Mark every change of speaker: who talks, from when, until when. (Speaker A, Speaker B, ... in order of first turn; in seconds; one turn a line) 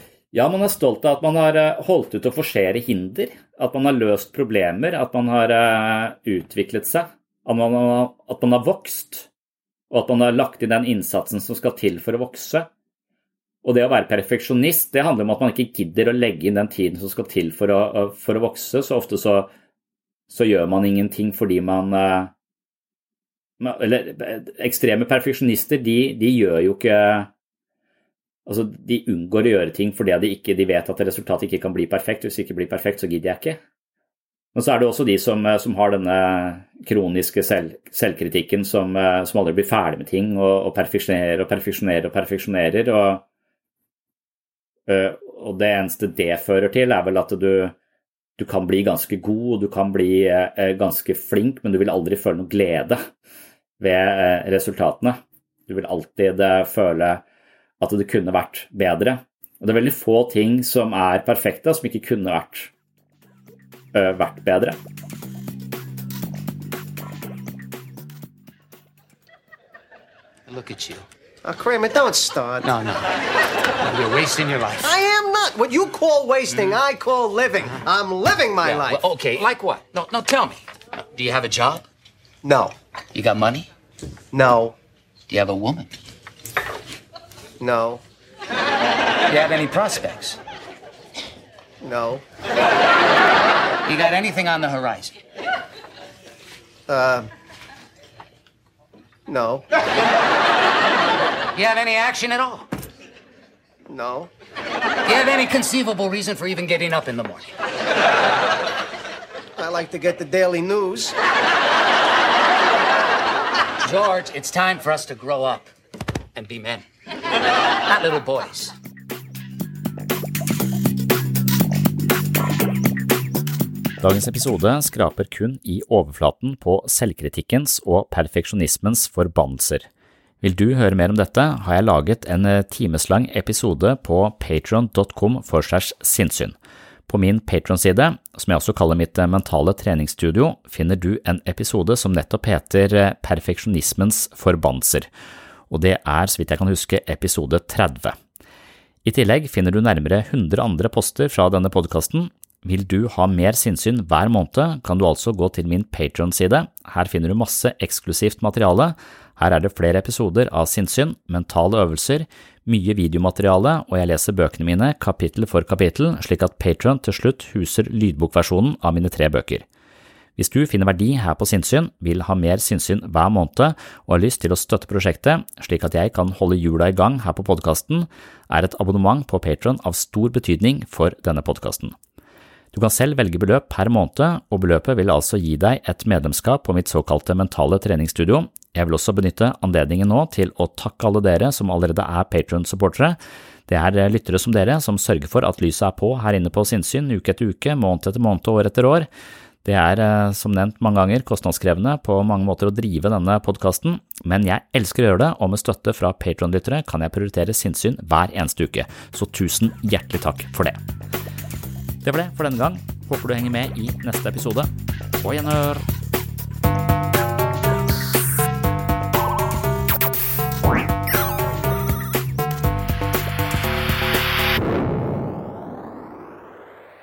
Speaker A: 0.3-9.3
Speaker A: 9.9-12.7
Speaker A: 13.6-19.5
Speaker A: 20.3-22.3
Speaker A: 23.6-27.3
Speaker A: 28.5-33.6
Speaker A: 34.5-43.2
Speaker A: 44.9-47.8
Speaker A: 48.4-53.0
Speaker A: 53.8-57.2
Speaker A: 57.8-62.7
Speaker A: 63.9-64.8
Speaker B: 70.5-71.1
Speaker C: 71.4-72.7
Speaker B: 72.6-73.0
Speaker B: 73.8-74.9
Speaker C: 74.8-79.0
Speaker B: 78.6-81.9
Speaker C: 82.4-82.8
Speaker B: 83.1-83.7
Speaker C: 84.3-84.8
Speaker B: 85.3-85.9
Speaker C: 87.6-88.0
Speaker B: 89.3-90.4
Speaker C: 91.8-92.2
Speaker B: 93.9-95.2
Speaker C: 96.9-97.3
Speaker C: 99.3-99.6
Speaker B: 101.5-102.7
Speaker C: 103.9-104.3
Speaker B: 105.1-107.5
Speaker C: 109.6-111.2
Speaker B: 113.8-115.7
Speaker B: 116.3-116.8
Speaker B: 117.8-118.7
Speaker A: 124.0-129.9
Speaker A: 130.4-136.6
Speaker A: 137.1-145.1
Speaker A: 145.7-148.2
Speaker A: 149.1-169.7
Speaker A: 170.4-182.0
Speaker A: 182.7-199.1
Speaker A: 199.6-210.8
Speaker A: 212.0-214.7
Speaker A: 215.2-215.9